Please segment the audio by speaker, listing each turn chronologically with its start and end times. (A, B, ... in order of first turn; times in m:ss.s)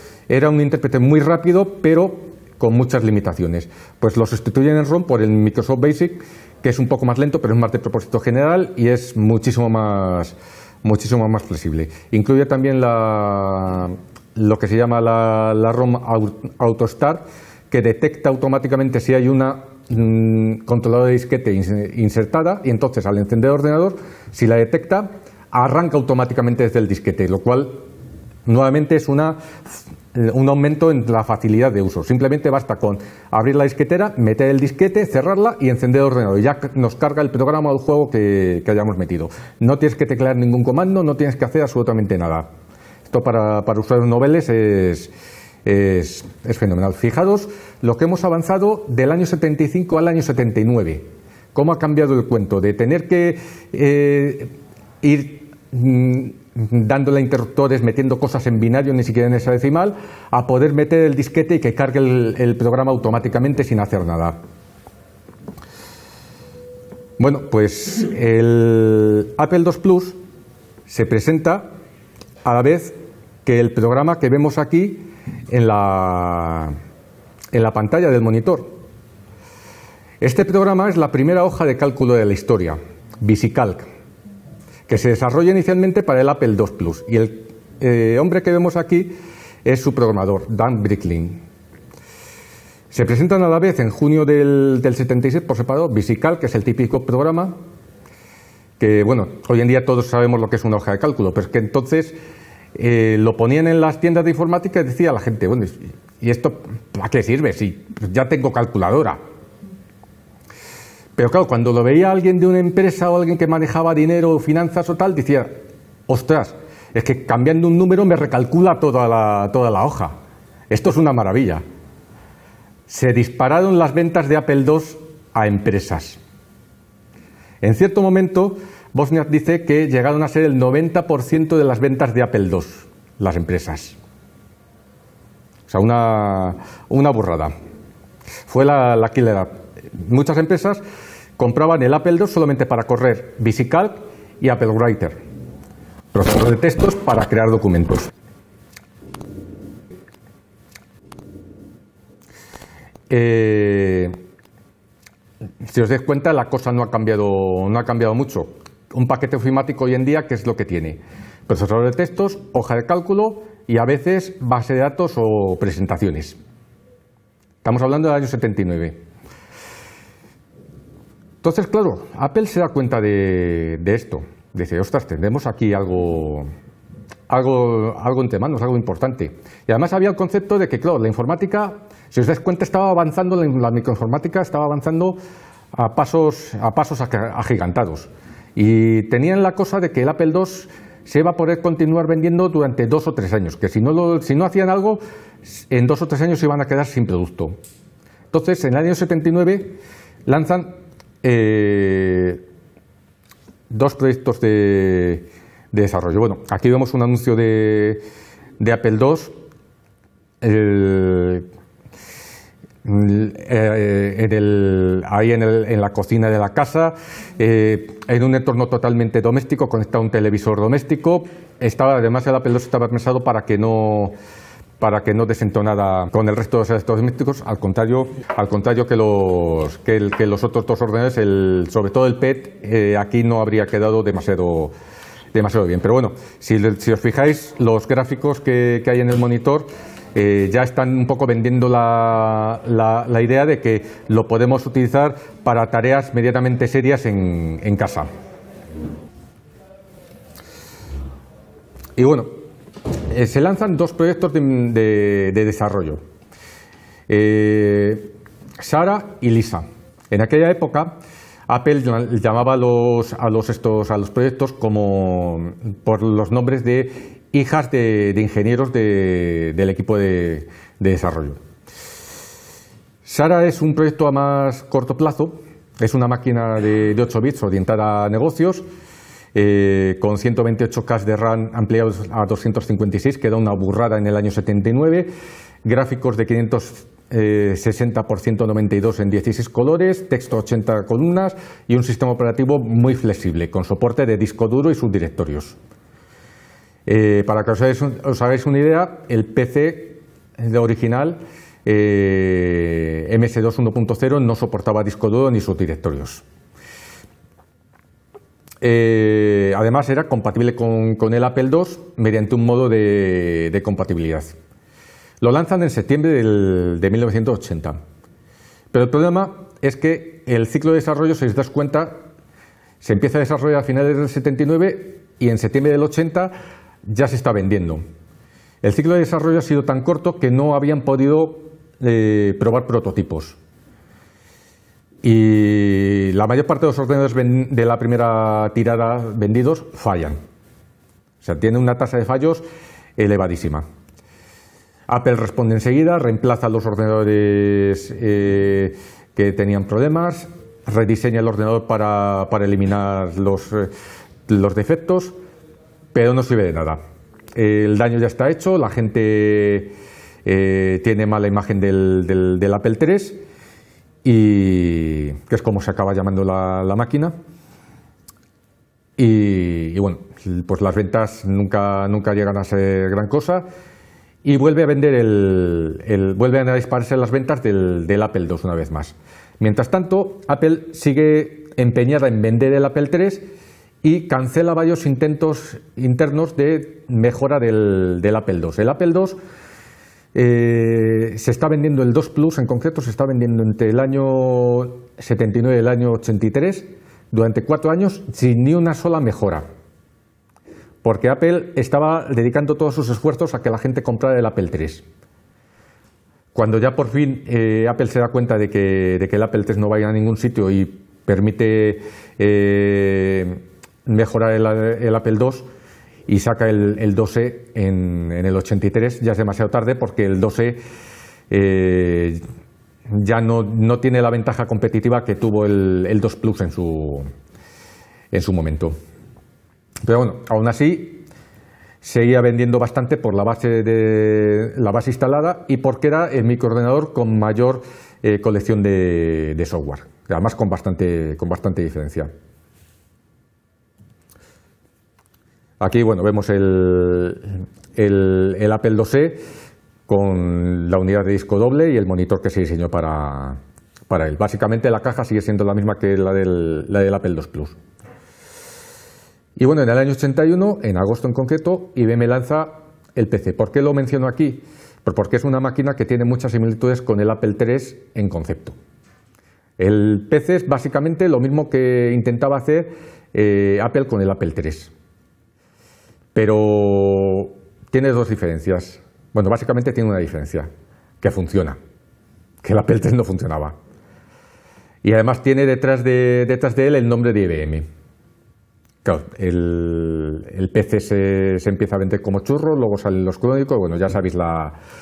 0:00.3-0:27.8 A
0:28.4-0:42.5 A
0:43.1-0:45.1 A
0:45.6-1:04.4 A
1:07.2-1:10.2 A
1:10.9-1:11.7 A
1:12.4-1:12.9 A
1:13.4-1:16.7 A
1:17.5-1:18.8 A
1:20.2-1:23.8 A
1:24.9-1:31.4 A
1:32.9-1:37.6 A
1:38.8-1:42.2 A
1:42.7-1:49.2 A
1:51.2-1:55.6 A
1:56.1-2:00.1 A
2:00.7-2:01.6 A
2:02.9-2:06.2 A
2:07.6-2:14.0 A
2:15.7-2:17.5 A
2:18.5-2:20.8 A
2:21.4-2:25.2 A
2:26.1-2:28.1 A
2:33.1-2:34.2 A
2:35.6-2:46.4 A
2:47.6-2:49.0 A
2:51.4-2:56.5 A
2:57.3-3:05.2 A
3:05.7-3:17.6 A
3:18.3-3:22.4 A
3:23.7-3:28.0 A
3:28.6-3:29.3 A
3:30.4-3:31.4 A
3:32.8-3:44.1 A
3:44.8-3:54.7 A
3:55.3-4:08.1 A
4:12.0-4:12.3 A
4:13.1-4:16.0 A
4:17.1-4:31.4 A
4:33.0-4:38.6 A
4:39.3-4:45.1 A
4:45.6-4:55.6 A
4:56.8-5:06.2 A
5:08.6-5:14.3 A
5:15.2-5:17.8 A
5:18.7-5:22.0 A
5:22.8-5:26.3 A
5:26.8-5:27.8 A
5:28.6-5:33.4 A
5:35.0-5:40.2 A
5:41.2-5:42.4 A
5:43.0-5:43.6 A
5:44.9-5:53.7 A
5:54.3-5:55.2 A
5:55.9-5:56.8 A
5:57.3-5:59.7 A
6:00.2-6:03.2 A
6:04.0-6:07.1 A
6:09.0-6:13.4 A
6:14.2-6:23.2 A
6:23.8-6:29.2 A
6:30.1-6:39.4 A
6:40.8-6:44.8 A
6:46.3-6:55.5 A
6:56.1-7:00.6 A
7:01.3-7:02.2 A
7:02.9-7:07.0 A
7:08.1-7:08.8 A
7:09.8-7:11.1 A
7:11.8-7:22.1 A
7:25.6-7:29.2 A
7:29.9-7:37.6 A
7:39.4-7:48.5 A
7:49.6-7:54.7 A
7:56.1-8:00.5 A
8:01.0-8:01.6 A
8:02.4-8:03.6 A
8:04.8-8:07.6 A
8:08.8-8:14.6 A